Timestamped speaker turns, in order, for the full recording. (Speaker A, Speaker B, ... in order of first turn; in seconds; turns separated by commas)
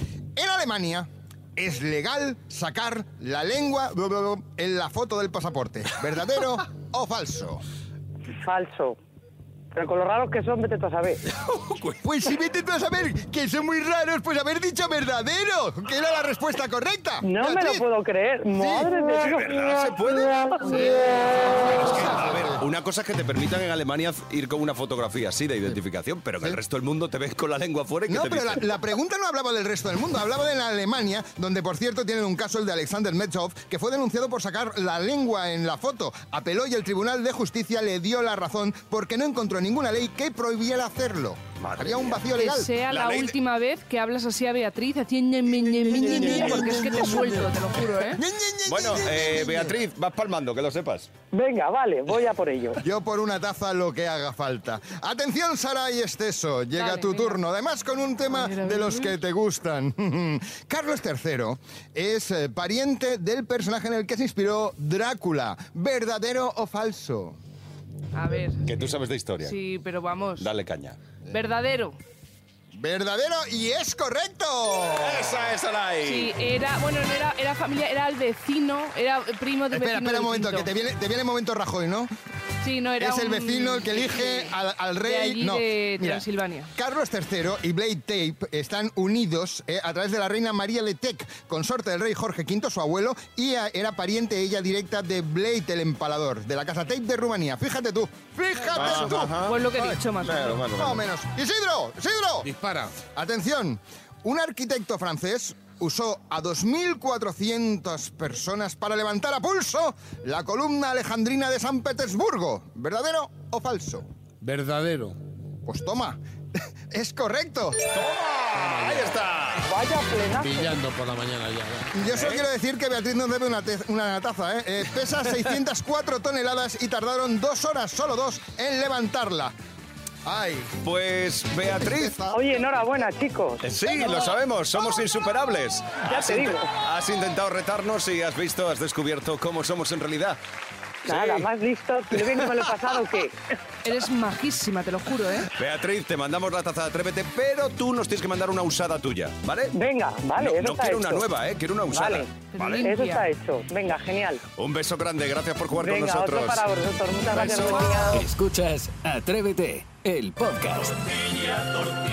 Speaker A: 0.4-7.6, Speaker B: 8.4-9.0, Speaker B: 9.7-11.2, Speaker C: 11.5-12.0, Speaker A: 12.0-17.9, Speaker B: 17.2-20.8, Speaker A: 18.5-18.9, Speaker C: 19.2-20.3, Speaker A: 20.6-22.6, Speaker C: 21.6-28.7, Speaker A: 28.1-42.7, Speaker C: 41.6-42.2, Speaker D: 42.3-48.2, Speaker C: 42.9-43.4, Speaker A: 45.6-49.8, Speaker C: 46.1-46.8, Speaker C: 48.7-51.1, Speaker B: 51.3-52.8, Speaker A: 52.8-67.4, Speaker D: 56.8-57.4, Speaker D: 58.3-59.1, Speaker D: 68.1-70.5, Speaker C: 68.7-69.6, Speaker C: 70.4-71.0, Speaker D: 71.3-72.0, Speaker A: 72.7-75.4, Speaker C: 75.0-76.3, Speaker D: 76.0-80.7, Speaker A: 79.7-82.1, Speaker D: 82.6-86.7, Speaker A: 83.0-100.0, Speaker D: 98.6-100.6, Speaker C: 98.7-99.6, Speaker C: 100.2-101.0, Speaker A: 100.7-114.1, Speaker E: 102.4-103.0, Speaker E: 114.4-115.2, Speaker A: 115.7-116.2, Speaker A: 116.9-117.8, Speaker C: 117.9-119.7, Speaker E: 118.5-119.1, Speaker B: 119.6-120.7, Speaker E: 120.4-121.9, Speaker A: 121.9-129.5, Speaker C: 122.1-122.5, Speaker A: 130.2-130.8, Speaker C: 130.8-132.2, Speaker A: 131.6-132.6, Speaker B: 132.3-133.7, Speaker C: 133.6-140.4, Speaker B: 136.1-136.7, Speaker C: 141.1-141.5, Speaker B: 141.1-143.4, Speaker C: 142.2-142.7, Speaker D: 143.8-145.5, Speaker C: 145.5-149.8, Speaker B: 149.8-151.2, Speaker C: 150.4-152.9, Speaker B: 151.9-152.3, Speaker D: 152.5-153.2, Speaker B: 152.8-154.4, Speaker C: 154.6-156.7, Speaker B: 155.7-158.2, Speaker C: 157.3-158.0, Speaker F: 158.1-161.0